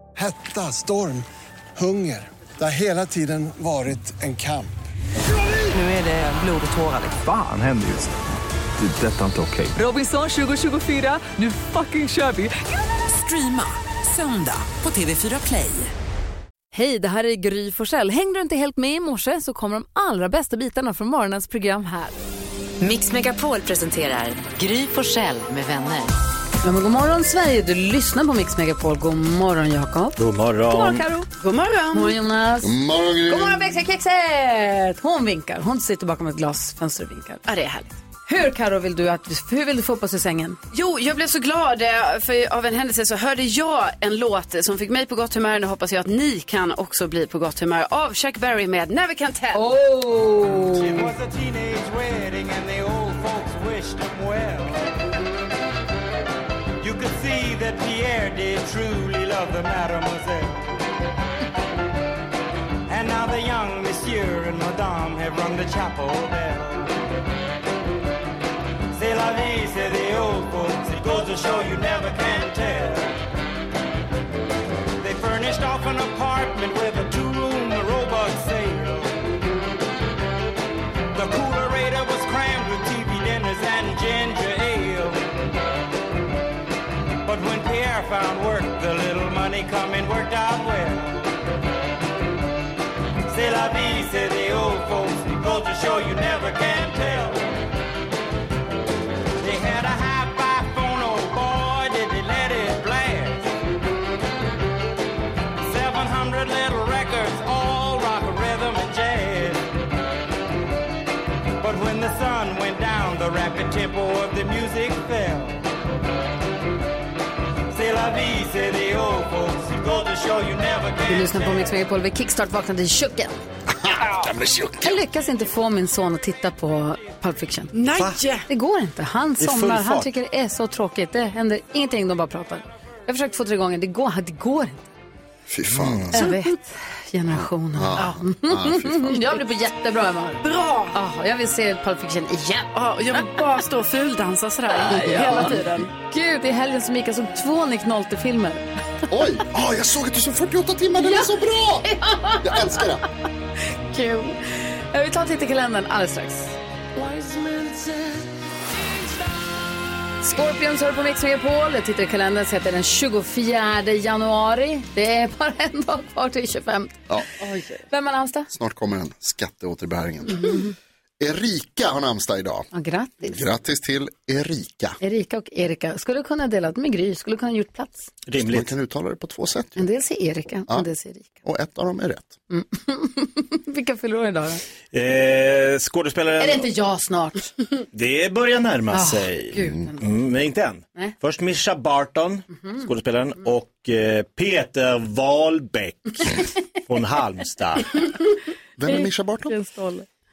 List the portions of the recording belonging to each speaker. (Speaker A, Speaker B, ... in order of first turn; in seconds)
Speaker A: 0.1-1.2, 1.8-4.8
Speaker B: 6.0-6.9, 9.9-12.5, 13.2-15.9
Speaker C: 7.1-8.1, 8.8-9.8
Speaker D: 16.7-22.1, 26.6-30.2, 30.7-31.3, 31.9-32.7, 33.3-37.5, 38.3-40.6, 49.5-51.1, 121.1-123.4, 124.8-127.7, 128.5-134.8, 136.1-140.4, 140.9-142.7, 144.7-148.6, 151.0-151.3, 151.8-152.8, 153.9-154.4, 154.9-156.5, 160.2-168.5, 172.7-173.4, 175.0-178.1, 179.8-181.4, 182.5-184.6, 186.4-187.6, 188.9-189.9, 198.9-200.1
Speaker E: 22.8-26.1
Speaker F: 30.2-31.1, 127.9-128.2, 129.4-130.1, 135.7-136.2, 178.3-178.7, 184.9-186.7, 187.9-198.0
Speaker G: 31.4-32.2, 37.5-38.0, 40.7-49.6, 127.7-128.5, 140.4-140.9, 142.8-145.9
Speaker H: 32.6-33.7, 123.7-125.0, 135.5-136.3, 137.3-139.2, 149.1-151.9, 152.4-153.0, 168.5-170.6, 171.2-172.7, 173.2-175.0, 178.4-179.8, 181.4-182.4, 198.8-199.5
Speaker I: 50.7-55.0, 56.8-60.8, 62.9-67.0, 68.9-73.1, 75.0-79.1, 81.1-85.2, 87.2-91.3, 93.3-97.4, 99.4-103.5, 105.6-109.7, 111.6-115.6, 117.7-121.8